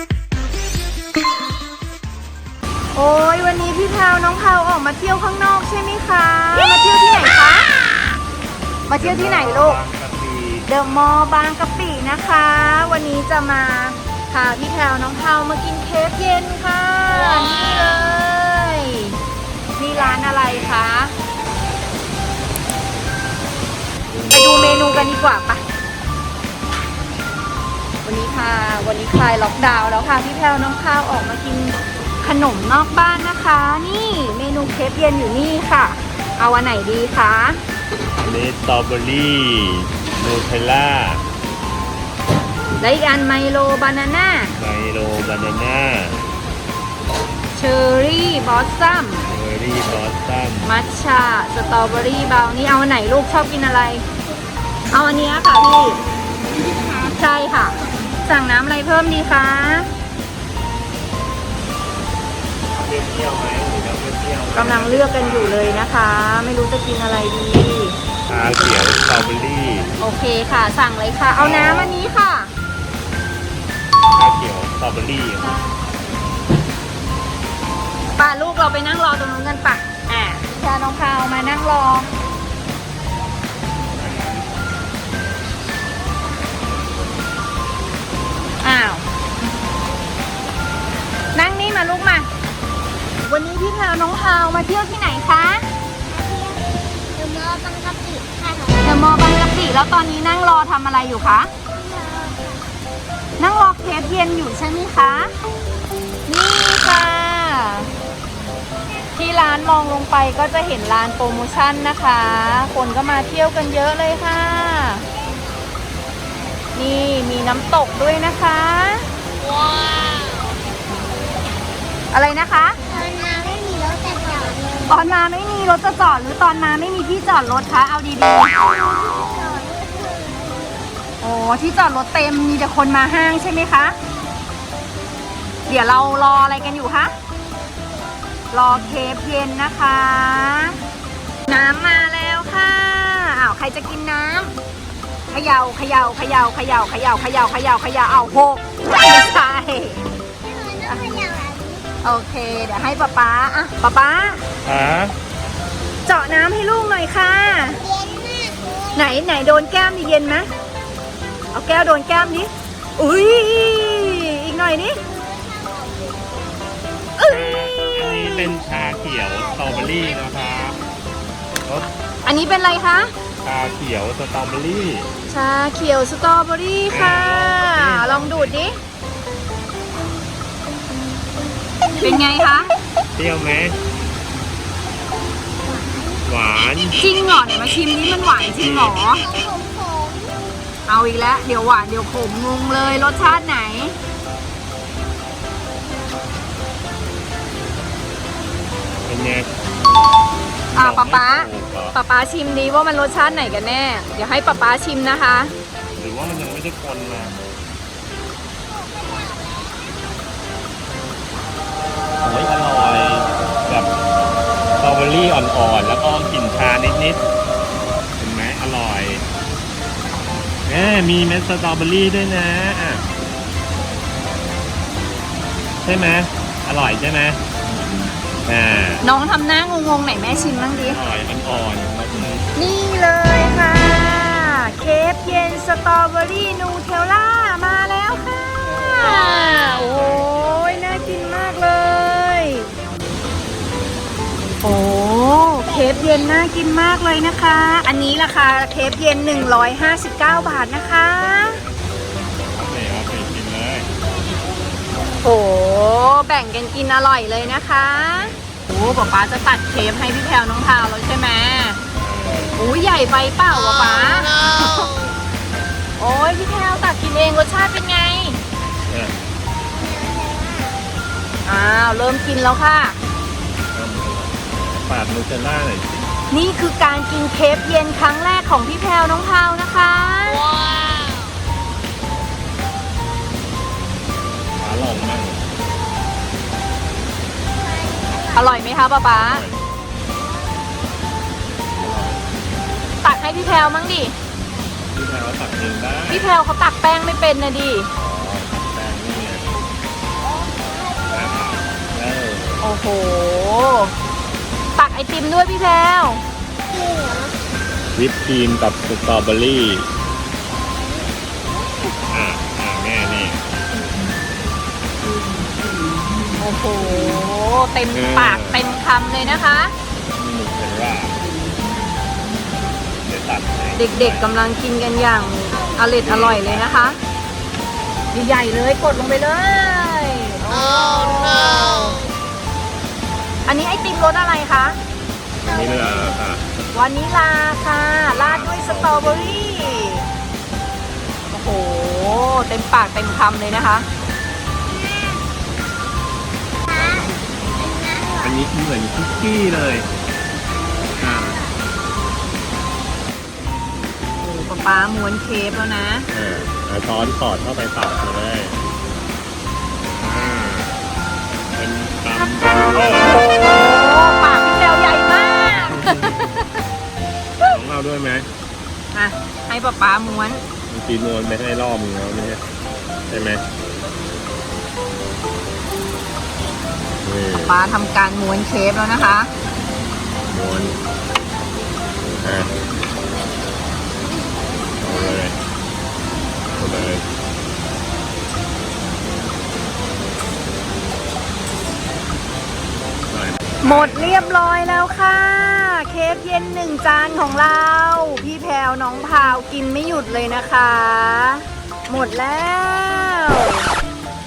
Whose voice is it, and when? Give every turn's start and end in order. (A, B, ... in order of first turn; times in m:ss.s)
0:03.0-0:07.7 A
0:08.9-0:09.8 A
0:09.0-0:11.0 B
0:10.7-0:19.2 A
0:19.8-0:21.1 A
0:19.9-0:20.8 B
0:24.1-0:25.1 B
0:24.3-0:25.6 A
0:28.0-0:37.6 A
0:38.2-0:41.2 B
0:42.8-0:44.5 A
0:44.5-0:46.2 B
0:47.5-0:49.3 A
0:49.3-0:50.7 B
0:50.6-0:54.0 A
0:54.9-0:56.0 A
0:57.1-0:59.9 A
1:02.8-1:05.9 B
1:04.5-1:08.0 A
1:08.3-1:09.9 B
1:10.0-1:12.5 A
1:11.4-1:12.0 B
1:14.2-1:15.6 B
1:18.2-1:22.1 A
1:24.0-1:24.5 B
1:28.6-1:29.0 A
1:31.3-1:32.3 A
1:33.2-1:35.7 A
1:36.1-1:36.6 C
1:37.1-1:39.0 C
1:38.8-1:41.5 A
1:41.7-1:42.7 C
1:43.4-1:45.3 A
1:46.3-1:47.9 A
1:49.1-1:55.0 A
1:56.8-1:59.1 A
2:02.1-2:02.8 A
2:02.9-2:05.0 C
2:04.9-2:08.6 A
2:08.8-2:10.9 C
2:11.2-2:14.0 A
2:15.7-2:17.1 A
2:18.5-2:20.8 A
2:21.5-2:24.5 A
2:25.3-2:30.0 A
2:30.4-2:31.9 C
2:32.0-2:34.4 A
2:34.6-2:35.1 B
2:36.1-2:37.8 A
2:37.8-2:39.1 C
2:39.0-2:40.5 A
2:41.5-2:45.0 A
2:45.1-2:46.5 C
2:47.2-2:48.4 A
2:47.3-2:50.8 B
2:48.8-2:50.4 C
2:52.2-2:53.1 A
2:53.4-2:55.1 B
2:55.3-2:58.8 A
2:56.9-2:58.6 B
3:02.0-3:02.7 A
3:03.2-3:03.8 B
3:05.6-3:06.2 C
3:06.3-3:07.0 B
3:07.0-3:09.3 A
3:08.5-3:09.0 B
3:09.0-3:10.4 C
3:10.9-3:14.0 A
3:19.1-3:19.5 B
3:20.7-3:25.5 A
3:20.8-3:22.0 B
3:26.0-3:27.4 B
3:28.7-3:30.2 C
3:32.2-3:33.9 B
3:34.8-3:37.2 B
3:38.2-3:39.2 B
3:40.7-3:43.0 B
3:45.8-3:47.4 B
3:48.4-3:49.0 B
3:49.0-3:51.0 A
3:50.8-3:52.4 B
3:52.6-4:02.7 A
4:04.6-4:11.6 A
4:05.6-4:06.3 C
4:12.4-4:13.9 B
4:14.0-4:14.8 C
4:15.2-4:21.8 A
4:22.0-4:22.6 B
4:22.6-4:24.9 A
4:26.0-4:28.4 A
4:28.9-4:29.1 B
4:29.7-4:30.8 C
4:31.4-4:33.0 A
4:33.7-4:36.0 B
4:36.3-4:40.4 A
4:44.6-4:45.5 B
4:47.6-4:48.6 C
4:48.3-4:49.4 A
4:49.1-4:49.6 B
4:51.8-4:52.2 B
4:53.0-4:54.2 A
4:54.9-4:56.3 B
4:56.1-4:57.9 A
4:58.0-4:59.5 B
5:00.2-5:01.6 C
5:01.1-5:02.6 B
5:02.6-5:03.9 A
5:04.8-5:06.2 A
5:06.7-5:07.3 C
5:08.0-5:09.9 B
5:12.1-5:13.4 B
5:16.4-5:19.7 A
5:17.9-5:18.8 B
5:20.2-5:21.2 B
5:23.0-5:24.3 B
5:23.8-5:27.0 A
5:25.5-5:26.0 C
5:26.0-5:27.0 B
5:28.1-5:32.0 A
5:33.5-5:34.8 A
5:35.4-5:36.4 B
5:35.4-5:36.2 C
5:36.7-5:40.0 A
5:38.1-5:39.9 B
5:41.3-5:43.9 A
5:44.7-5:45.2 C
5:46.7-5:48.4 C
5:48.2-5:49.9 B
5:51.0-5:51.5 C
5:51.0-5:51.4 B
5:54.2-5:56.1 A
5:56.1-5:58.6 B
5:59.8-6:00.8 B
6:01.5-6:03.3 B
6:03.2-6:06.4 A
6:05.8-6:06.1 B
6:07.4-6:08.3 B
6:08.9-6:10.4 A
6:10.7-6:12.4 B
6:13.1-6:13.4 B
6:17.0-6:17.6 B
6:17.4-6:19.3 A
6:20.3-6:20.8 B
6:22.2-6:22.5 B
6:24.3-6:25.2 C
6:24.8-6:25.4 B
6:26.6-6:27.0 B
6:33.1-6:34.2 B
6:33.6-6:43.6 A